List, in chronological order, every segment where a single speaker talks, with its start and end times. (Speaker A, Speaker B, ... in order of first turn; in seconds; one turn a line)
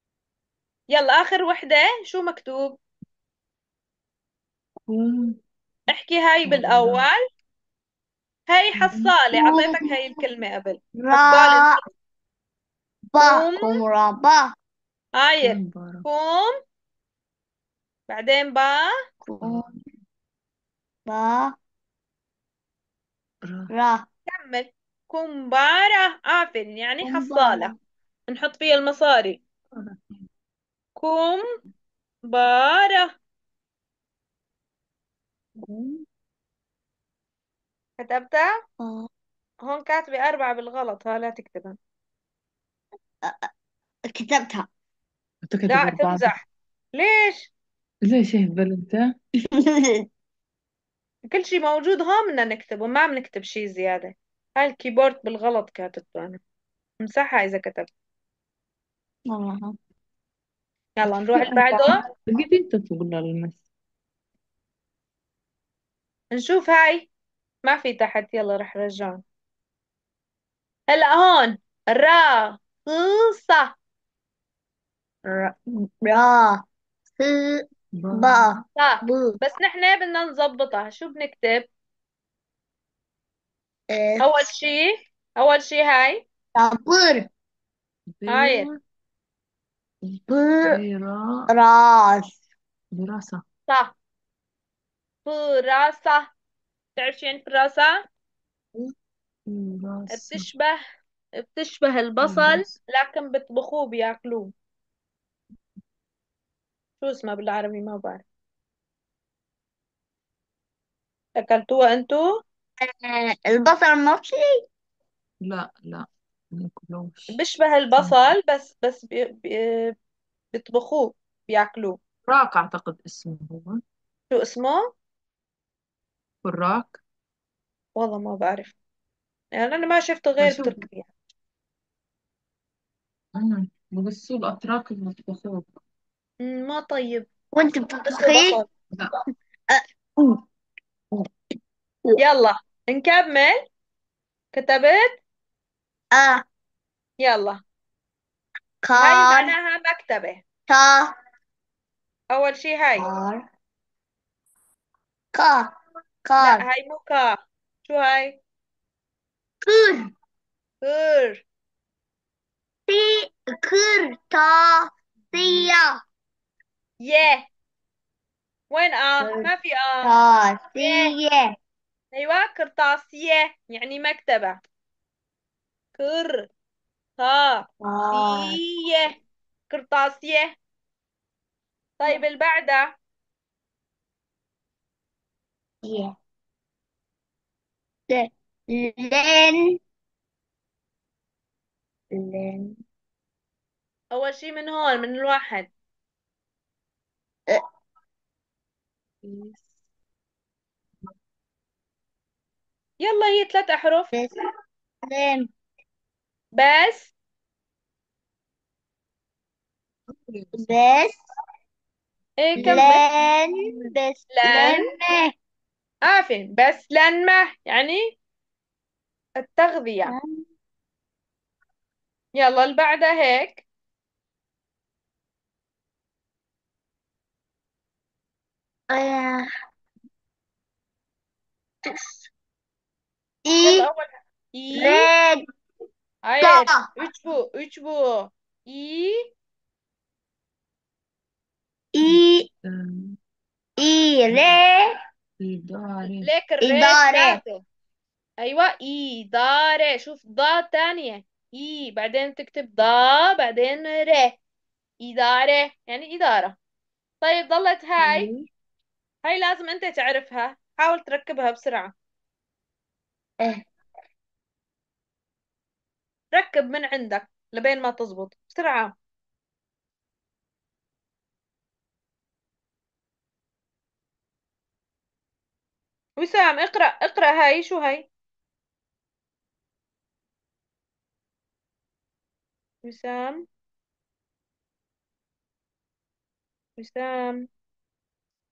Speaker A: 0.9-2.8
Speaker B: 4.9-5.4
Speaker A: 5.9-7.2
Speaker B: 6.5-7.1
Speaker A: 8.5-11.9
Speaker B: 8.8-9.1
Speaker C: 9.4-9.9
Speaker C: 11.0-11.8
Speaker C: 13.1-14.6
Speaker A: 13.2-13.8
Speaker A: 15.2-16.5
Speaker B: 15.4-16.1
Speaker A: 18.1-18.9
Speaker C: 19.2-19.8
Speaker B: 19.4-19.8
Speaker C: 21.1-21.6
Speaker B: 23.4-23.7
Speaker C: 23.7-24.1
Speaker A: 24.3-27.7
Speaker C: 27.1-27.7
Speaker A: 28.3-29.4
Speaker A: 31.0-31.4
Speaker A: 32.3-33.1
Speaker A: 38.0-38.5
Speaker C: 38.8-39.1
Speaker A: 39.6-41.8
Speaker C: 44.1-44.7
Speaker B: 45.4-46.4
Speaker A: 45.7-47.5
Speaker B: 48.0-49.2
Speaker A: 51.3-56.4
Speaker A: 57.0-57.9
Speaker C: 59.3-59.8
Speaker A: 61.0-62.0
Speaker B: 61.1-63.6
Speaker A: 66.3-67.1
Speaker A: 67.7-69.2
Speaker A: 70.9-73.8
Speaker C: 75.3-76.6
Speaker C: 77.2-79.4
Speaker B: 77.9-78.6
Speaker A: 78.8-81.7
Speaker C: 83.9-84.5
Speaker A: 84.2-86.2
Speaker C: 86.6-87.3
Speaker B: 88.1-88.8
Speaker A: 88.3-88.7
Speaker C: 90.1-90.8
Speaker B: 90.6-91.5
Speaker C: 91.5-92.4
Speaker B: 92.9-93.4
Speaker A: 93.7-94.0
Speaker A: 95.2-96.3
Speaker A: 97.0-98.1
Speaker B: 99.5-100.5
Speaker A: 100.1-100.8
Speaker A: 101.4-104.5
Speaker B: 102.2-102.7
Speaker A: 107.0-108.2
Speaker A: 111.4-112.4
Speaker C: 112.9-114.6
Speaker B: 115.4-117.3
Speaker A: 117.3-119.9
Speaker B: 118.0-118.3
Speaker A: 120.5-122.0
Speaker B: 122.3-123.8
Speaker A: 124.3-124.8
Speaker B: 126.4-127.0
Speaker A: 128.0-128.8
Speaker A: 129.5-131.1
Speaker B: 130.4-130.8
Speaker B: 133.3-135.7
Speaker A: 136.4-137.3
Speaker C: 137.5-138.6
Speaker A: 138.1-138.7
Speaker C: 139.7-140.4
Speaker A: 142.2-143.6
Speaker A: 144.5-145.2
Speaker C: 146.1-146.4
Speaker A: 147.2-147.6
Speaker C: 148.8-149.5
Speaker A: 149.0-150.4
Speaker C: 150.7-151.1
Speaker A: 152.3-153.1
Speaker C: 153.0-153.4
Speaker C: 155.3-155.6
Speaker C: 156.2-156.7
Speaker A: 156.4-158.4
Speaker C: 159.6-160.0
Speaker A: 160.8-161.4
Speaker C: 162.9-165.9
Speaker A: 167.0-167.4
Speaker A: 168.7-170.2
Speaker C: 169.2-169.5
Speaker C: 170.0-171.5
Speaker A: 170.8-171.1
Speaker A: 172.1-174.6
Speaker A: 175.9-176.5
Speaker A: 177.2-179.2
Speaker C: 177.8-178.6
Speaker A: 179.7-180.6
Speaker A: 182.0-183.0
Speaker C: 185.9-186.2
Speaker C: 188.1-189.8
Speaker C: 192.1-192.8
Speaker A: 194.1-195.7
Speaker B: 199.2-199.7
Speaker A: 203.0-204.1
Speaker C: 205.1-205.5
Speaker A: 206.6-207.1
Speaker B: 210.1-210.8
Speaker C: 210.6-211.3
Speaker A: 212.4-213.0
Speaker C: 212.6-215.3
Speaker A: 214.3-214.9
Speaker A: 216.1-218.2
Speaker A: 219.4-220.1
Speaker C: 220.1-220.4
Speaker A: 222.4-223.7
Speaker C: 228.9-229.4
Speaker C: 231.9-232.3
Speaker C: 233.5-233.9
Speaker A: 233.6-235.1
Speaker C: 234.7-235.4
Speaker A: 236.2-239.2
Speaker C: 236.4-236.9
Speaker C: 241.9-242.5
Speaker B: 242.1-243.2
Speaker C: 243.8-244.9
Speaker B: 244.3-244.6
Speaker B: 245.4-246.3
Speaker A: 246.2-247.7
Speaker C: 246.6-247.4
Speaker A: 248.4-254.4
Speaker A: 255.0-256.6
Speaker A: 257.2-258.3
Speaker B: 258.0-258.5
Speaker A: 259.2-261.9
Speaker A: 266.3-269.0
Speaker A: 276.2-278.1
Speaker A: 282.8-283.5
Speaker A: 286.8-287.5